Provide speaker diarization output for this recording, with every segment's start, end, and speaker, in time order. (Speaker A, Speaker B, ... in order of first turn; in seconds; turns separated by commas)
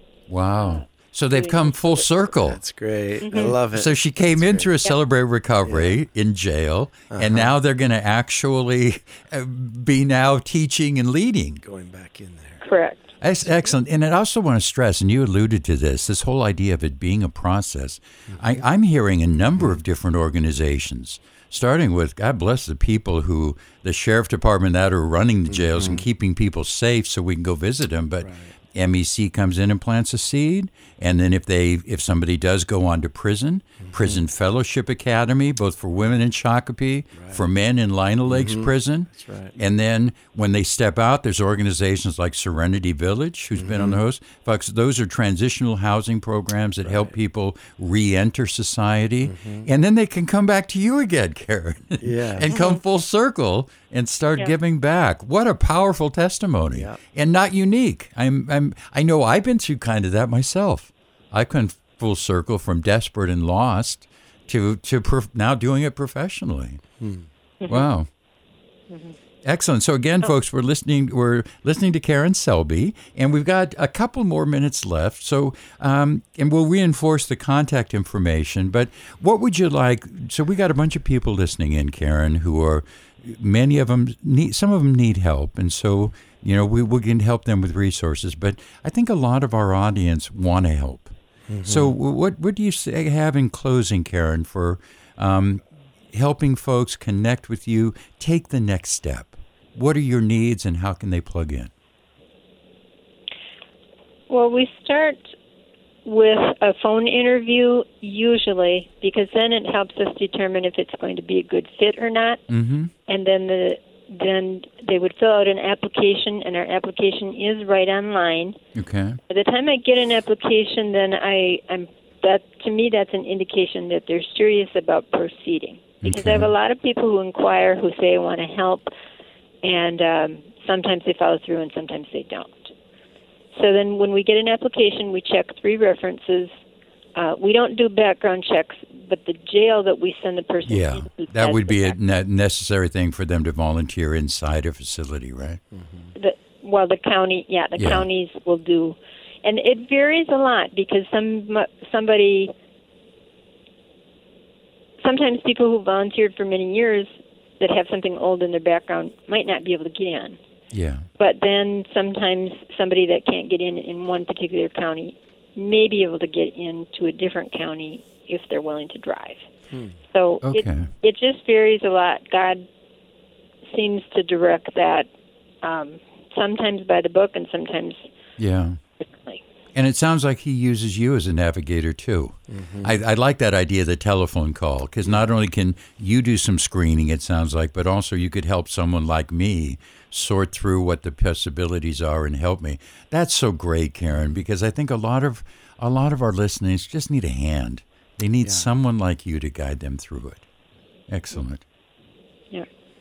Speaker A: 0.3-2.6, Speaker B: 0.6-2.0, Speaker C: 2.3-4.7, Speaker B: 3.2-3.5, Speaker A: 3.7-11.6, Speaker C: 5.6-6.0, Speaker C: 7.1-7.5, Speaker C: 11.6-12.6, Speaker B: 12.6-13.1, Speaker A: 13.2-66.8, Speaker C: 13.4-13.7, Speaker C: 25.5-26.0, Speaker C: 28.2-28.5, Speaker C: 33.8-34.2, Speaker C: 37.1-37.4, Speaker C: 38.3-39.5, Speaker C: 43.5-44.0, Speaker C: 46.8-47.1, Speaker C: 49.2-49.7, Speaker C: 52.0-52.5, Speaker B: 52.4-52.8, Speaker C: 56.7-57.0, Speaker C: 67.0-67.3, Speaker A: 67.7-68.1, Speaker A: 69.4-101.7, Speaker C: 91.5-92.0, Speaker B: 104.3-105.3, Speaker B: 106.0-112.4, Speaker A: 112.5-112.9, Speaker B: 113.1-118.6, Speaker A: 118.7-119.2, Speaker B: 119.3-128.9, Speaker A: 126.0-126.5, Speaker B: 129.6-132.7, Speaker B: 133.5-136.5, Speaker B: 137.2-142.0, Speaker A: 140.6-145.6, Speaker C: 145.7-146.1, Speaker B: 146.1-152.5, Speaker A: 147.8-148.1, Speaker B: 155.0-157.1, Speaker B: 157.6-160.4, Speaker A: 160.7-161.1, Speaker B: 161.2-169.5, Speaker B: 170.1-172.7, Speaker A: 170.4-170.9, Speaker B: 173.7-175.1, Speaker B: 175.6-178.1, Speaker A: 178.4-178.8, Speaker A: 179.7-200.4, Speaker C: 182.5-182.9, Speaker C: 198.4-198.7, Speaker A: 201.1-201.6